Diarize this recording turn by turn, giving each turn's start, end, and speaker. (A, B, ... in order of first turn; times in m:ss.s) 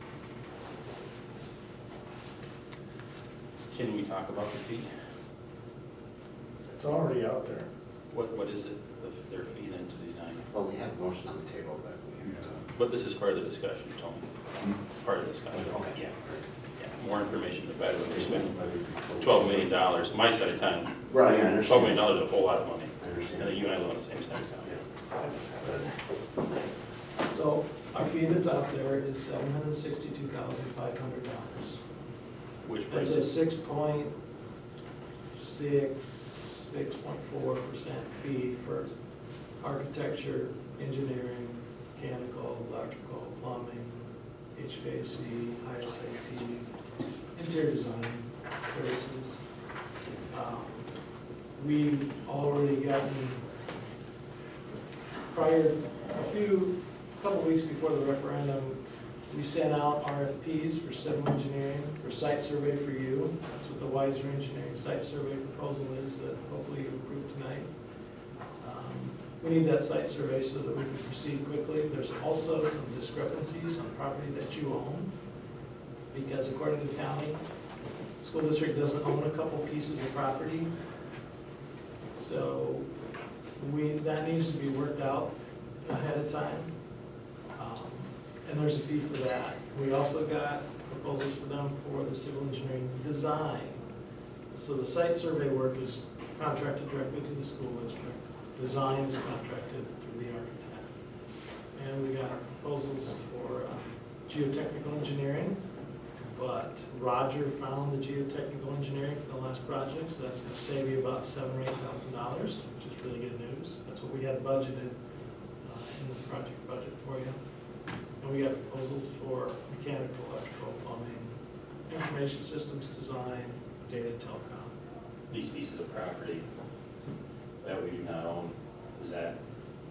0:03.7-0:04.9 A
0:06.7-0:07.7 B
0:08.1-0:10.4 A
0:10.5-0:12.6 C
0:12.7-0:16.1 A
0:15.5-0:16.4 C
0:16.8-0:18.5 A
0:18.1-0:19.7 C
0:19.1-0:24.8 A
0:21.1-0:22.0 C
0:23.0-0:23.5 C
0:27.3-0:31.8 B
0:32.6-0:33.3 A
0:32.9-0:34.1 B
0:35.4-0:38.9 B
0:39.6-0:46.7 B
0:47.3-0:49.4 B
0:50.3-0:50.9 B
0:51.6-0:53.5 B
0:55.3-1:07.7 B
1:08.6-1:15.1 B
1:16.1-1:17.4 B
1:18.2-1:20.7 B
1:22.1-1:22.9 B
1:23.6-1:26.7 B
1:27.6-1:33.8 B
1:34.5-1:40.9 B
1:41.7-1:45.6 B
1:46.3-1:55.0 B
1:55.6-1:57.4 B
1:58.2-2:01.3 B
2:01.9-2:04.7 B
2:05.3-2:06.4 A
2:07.6-2:09.4 A